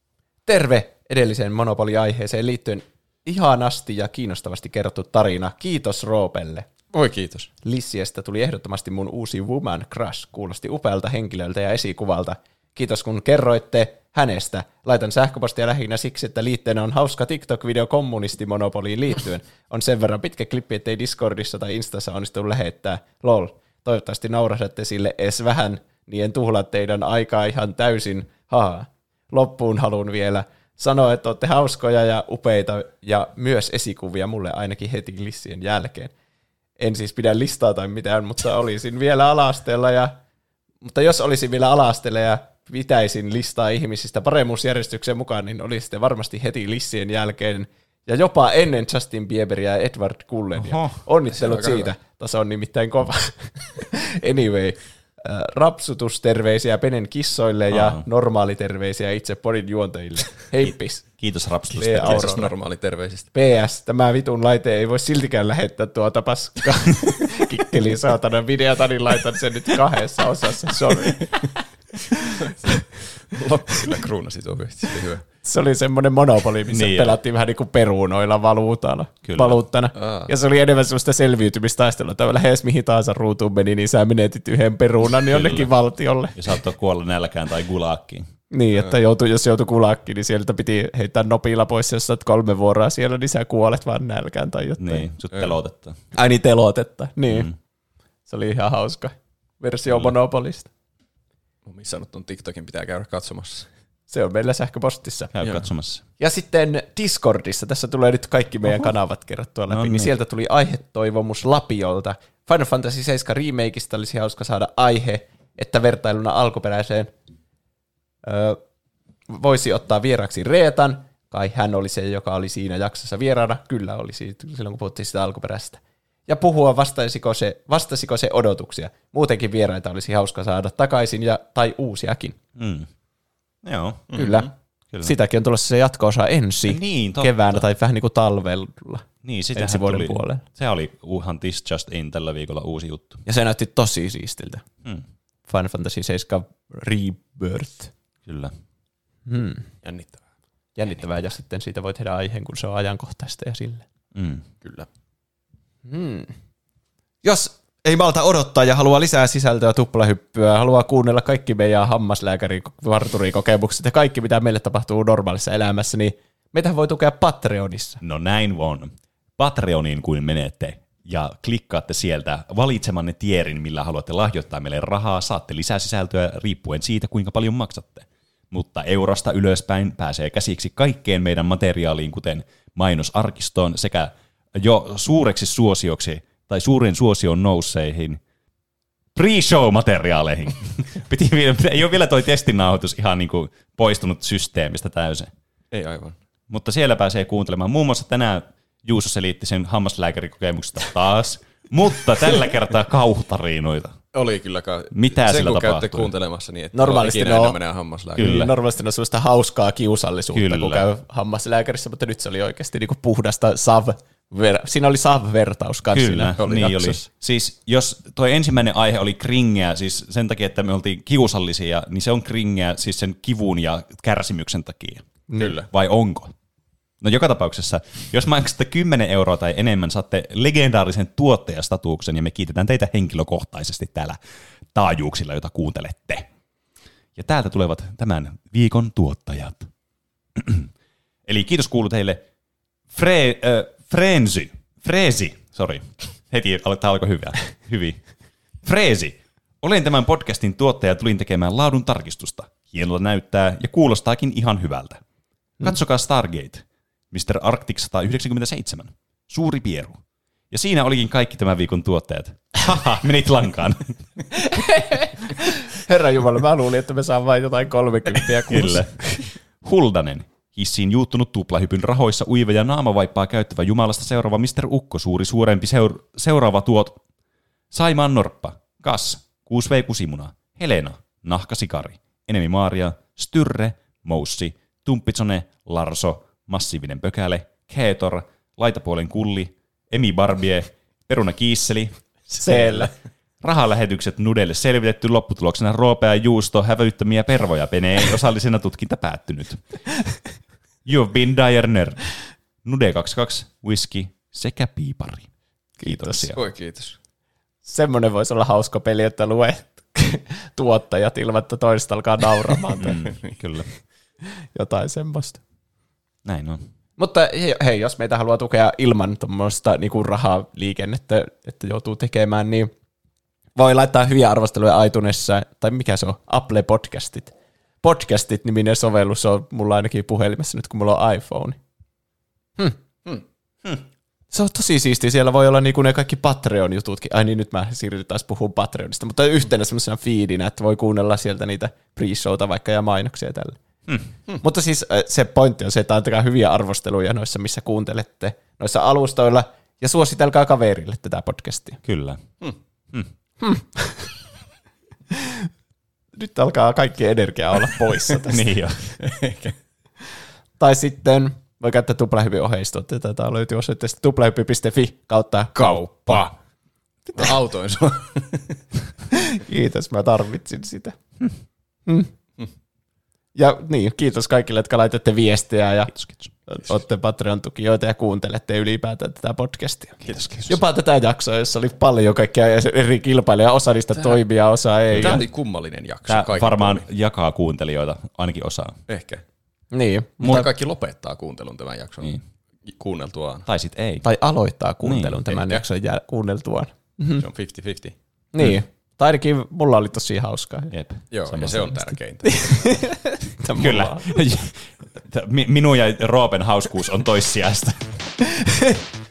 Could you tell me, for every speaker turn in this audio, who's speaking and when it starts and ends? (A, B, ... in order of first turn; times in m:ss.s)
0:00.4-0:06.6 A
0:06.9-0:07.5 B
0:07.6-0:36.1 A
0:36.8-0:40.1 A
0:40.8-1:01.2 A
0:50.6-0:51.0 C
0:51.3-0:51.9 B
0:57.7-0:58.0 C
1:00.6-1:02.3 C
1:01.7-1:02.5 A
1:02.0-1:03.3 B
1:03.3-1:11.3 A
1:12.4-1:15.2 B
1:15.4-1:26.4 A
1:16.7-1:17.2 C
1:19.2-1:19.6 C
1:20.0-1:20.3 B
1:25.3-1:25.7 C
1:26.3-1:28.2 C
1:28.5-1:35.1 A
1:34.8-1:36.0 C
1:36.1-1:37.5 A
1:37.3-1:37.5 C
1:38.3-1:40.7 A
1:41.6-1:43.7 B
1:44.1-1:45.3 A
1:45.3-1:46.0 C
1:46.2-1:57.1 A
1:49.7-1:50.1 C
1:58.2-1:58.6 A
1:59.3-2:12.4 A
2:12.6-2:12.9 C
2:13.6-2:14.1 C
2:14.1-2:14.5 B
2:14.1-2:14.5 A
2:15.0-2:20.4 A
2:16.6-2:17.6 C
2:19.2-2:23.2 C
2:23.2-2:24.6 A
2:25.5-2:27.9 A
2:28.2-2:28.5 C
2:29.2-2:29.7 A
2:29.8-2:30.2 B
2:30.8-2:33.8 A
2:34.1-2:34.4 C
2:34.6-2:34.9 B
2:35.8-2:36.3 A
2:37.2-2:48.0 A
2:48.0-3:08.2 C
3:09.1-3:15.3 C
3:15.7-3:16.2 B
3:16.5-3:24.0 C
3:24.1-3:28.2 B
3:24.9-3:26.1 C
3:26.7-3:27.6 A
3:28.2-3:28.5 C
3:28.2-3:36.4 A
3:30.3-3:30.8 C
3:35.9-3:45.1 C
3:36.4-3:37.0 B
3:45.4-3:45.7 B
3:45.7-3:46.3 C
3:47.0-3:54.2 C
3:54.7-3:56.3 C
3:57.2-3:59.7 C
4:00.3-4:00.7 C
4:01.3-4:02.2 C
4:02.9-4:08.0 C
4:08.6-4:15.0 C
4:15.6-4:24.1 C
4:24.5-4:28.8 A
4:28.5-4:29.0 C
4:29.6-4:37.0 C
4:37.7-4:52.9 C
4:52.4-4:52.9 A
4:53.4-4:59.8 C
5:00.8-5:02.1 C
5:02.6-5:05.3 C
5:05.8-5:06.3 A
5:05.8-5:06.4 C
5:06.3-5:07.0 B
5:07.6-5:13.1 A
5:12.8-5:13.7 C
5:14.4-5:15.4 A
5:16.2-5:16.6 C
5:17.0-5:22.7 A
5:23.6-5:31.6 A
5:34.3-5:43.6 A
5:43.9-5:44.1 C
5:44.4-5:51.8 A
5:51.8-5:52.4 C
5:53.4-5:54.1 A
5:56.1-5:58.4 A
5:58.2-5:58.8 C
5:59.0-5:59.6 B
6:00.6-6:05.8 A
6:05.5-6:06.3 B
6:07.1-6:08.6 B
6:09.2-6:11.0 A
6:13.3-6:15.9 A
6:15.9-6:16.3 C
6:16.5-6:25.2 A
6:20.0-6:20.6 C
6:23.9-6:24.2 B
6:24.9-6:25.2 C
6:24.9-6:26.8 B
6:26.1-6:28.8 C
6:28.9-6:29.2 B
6:29.7-6:30.5 A
6:30.2-6:33.5 B
6:33.5-6:34.0 C
6:34.0-6:37.2 A
6:34.8-6:35.2 C
6:35.3-6:35.6 B
6:37.2-6:37.9 B
6:38.3-6:40.7 A
6:40.7-6:41.8 C
6:41.1-6:42.9 B
6:42.3-6:44.2 A
6:43.6-6:48.0 C
6:48.4-6:48.7 A